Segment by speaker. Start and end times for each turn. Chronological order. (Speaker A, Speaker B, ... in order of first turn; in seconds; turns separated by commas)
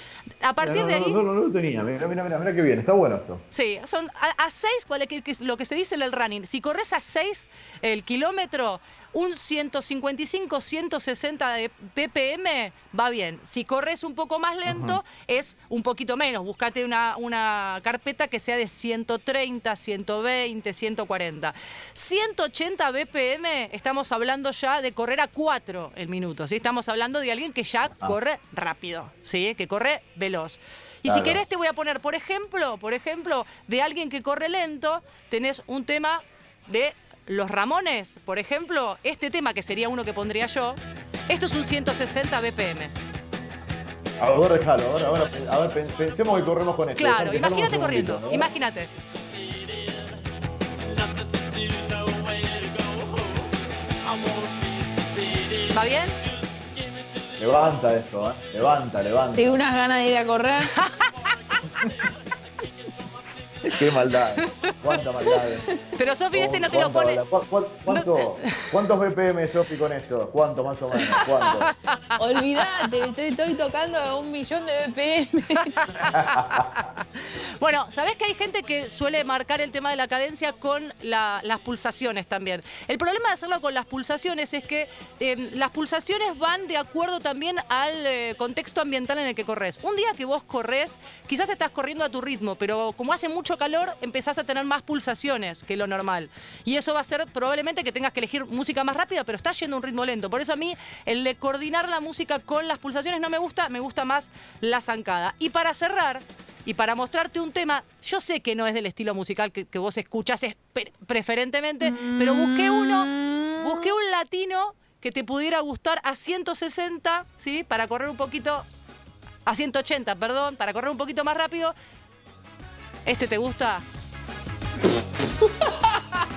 Speaker A: 0.4-1.2, Speaker B: 0.6-3.4, Speaker A: 3.5-42.9, Speaker B: 14.6-15.0, Speaker B: 31.1-31.4, Speaker B: 44.2-48.5, Speaker A: 47.0-48.9, Speaker A: 55.6-56.2, Speaker B: 57.4-59.6, Speaker C: 59.3-60.7, Speaker A: 60.7-61.1, Speaker B: 61.6-62.1, Speaker B: 63.7-65.6, Speaker A: 64.4-64.7, Speaker C: 65.2-65.8, Speaker A: 65.9-67.2, Speaker B: 66.3-71.7, Speaker A: 67.9-68.7, Speaker A: 70.9-73.0, Speaker C: 72.2-75.8, Speaker A: 75.6-118.6, Speaker B: 76.0-76.7, Speaker C: 111.9-113.4, Speaker A: 119.4-121.7, Speaker A: 123.0-123.8, Speaker C: 125.4-126.2